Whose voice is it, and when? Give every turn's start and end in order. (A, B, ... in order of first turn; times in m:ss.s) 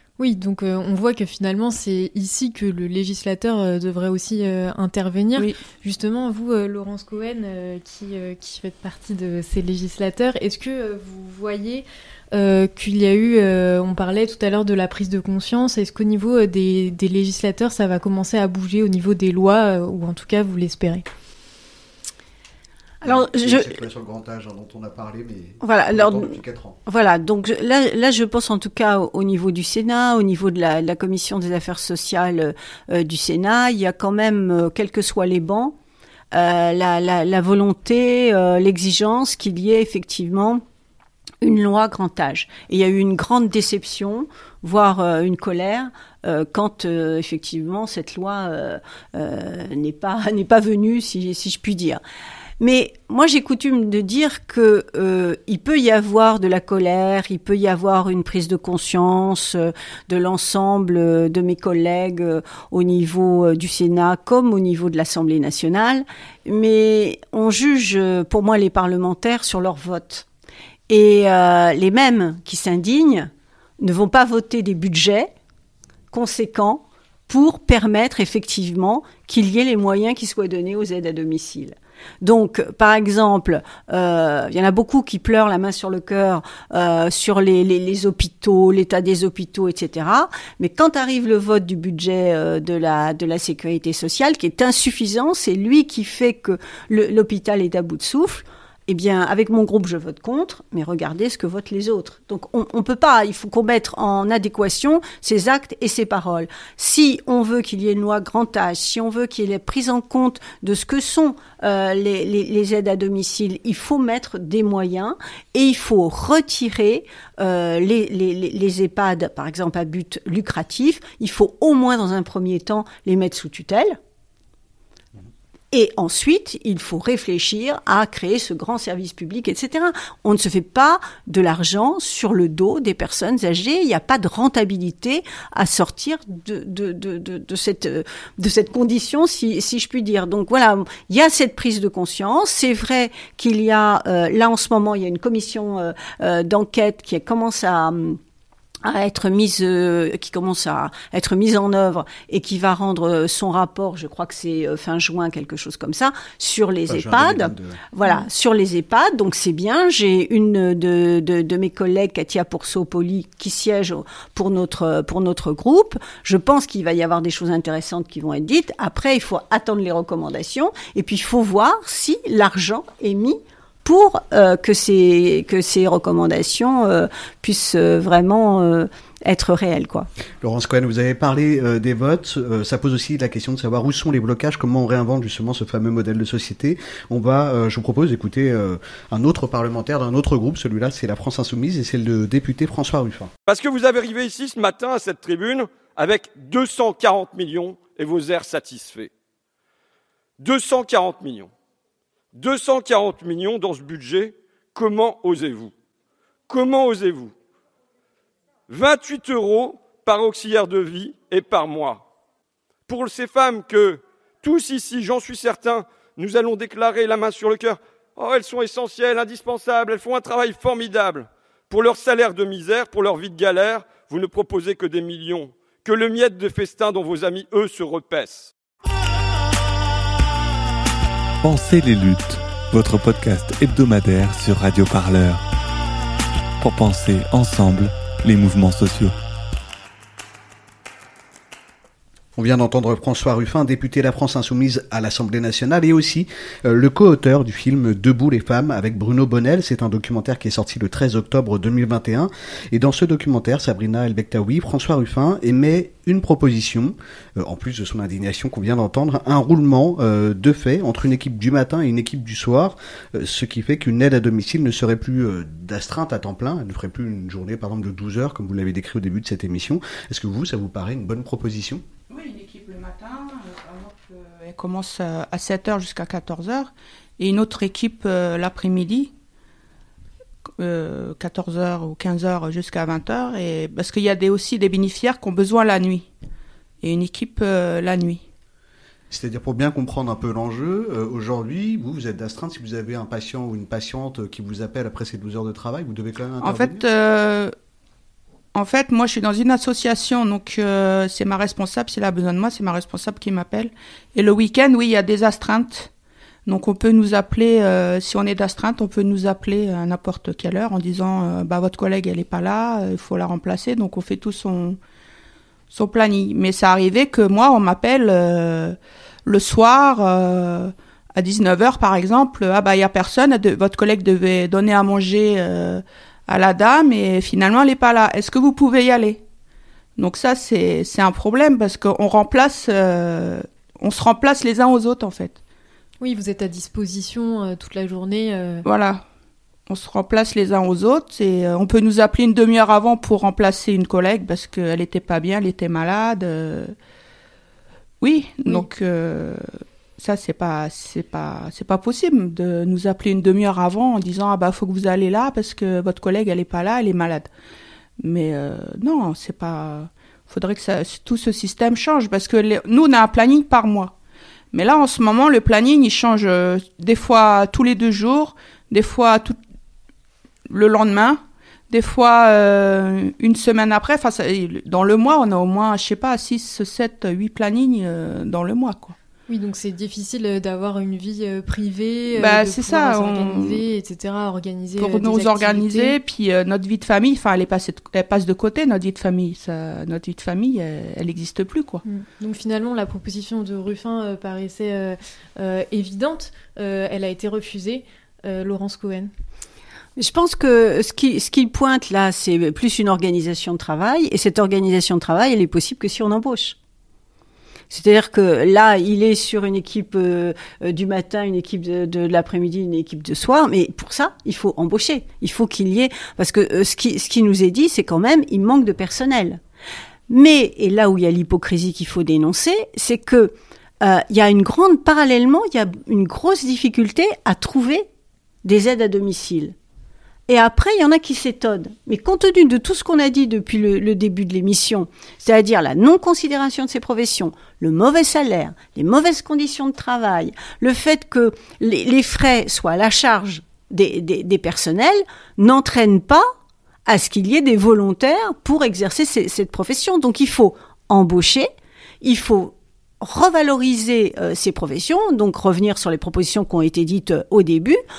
0:00.2-0:21.0 A
0:23.0-0:23.7 B
0:23.0-0:26.8 C
0:25.6-0:35.8 B
0:36.3-0:40.6 B
0:41.4-0:52.0 B
0:52.6-1:10.2 B
1:10.9-1:15.3 B
1:16.1-2:04.0 B
2:05.7-2:28.2 B
2:28.8-3:00.1 B
2:36.9-2:37.8 C
3:00.4-3:13.3 C
3:13.5-3:19.1 D
3:20.4-3:21.5 D
3:22.3-3:25.7 D
3:26.5-3:27.3 D
3:28.7-3:32.0 D
3:32.9-3:48.5 D
3:51.4-3:55.4 E
3:56.6-3:59.1 E
4:02.4-4:31.8 C
4:32.1-4:39.1 F
4:40.6-4:46.1 F
4:46.8-4:48.2 F
4:49.1-4:56.8 C
4:56.4-4:57.5 F
4:58.5-5:05.9 F
5:06.4-5:14.8 F
5:15.7-5:29.2 F
5:30.0-5:35.4 F
5:36.0-5:38.6 A
5:38.6-5:39.0 F
5:39.7-5:46.7 F
5:48.0-5:49.4 F
5:50.0-5:57.3 F
5:58.0-6:03.9 F
6:04.5-6:09.4 F
6:10.5-6:19.0 F
6:19.3-6:26.0 A
6:22.1-6:23.6 F
6:24.8-6:31.8 F
6:31.8-6:39.1 A
6:40.0-6:46.6 B
6:47.7-6:59.4 B
7:00.1-7:07.9 B
7:08.4-7:09.5 B
7:10.3-7:26.3 B
7:26.9-7:31.5 B
7:32.0-7:37.8 B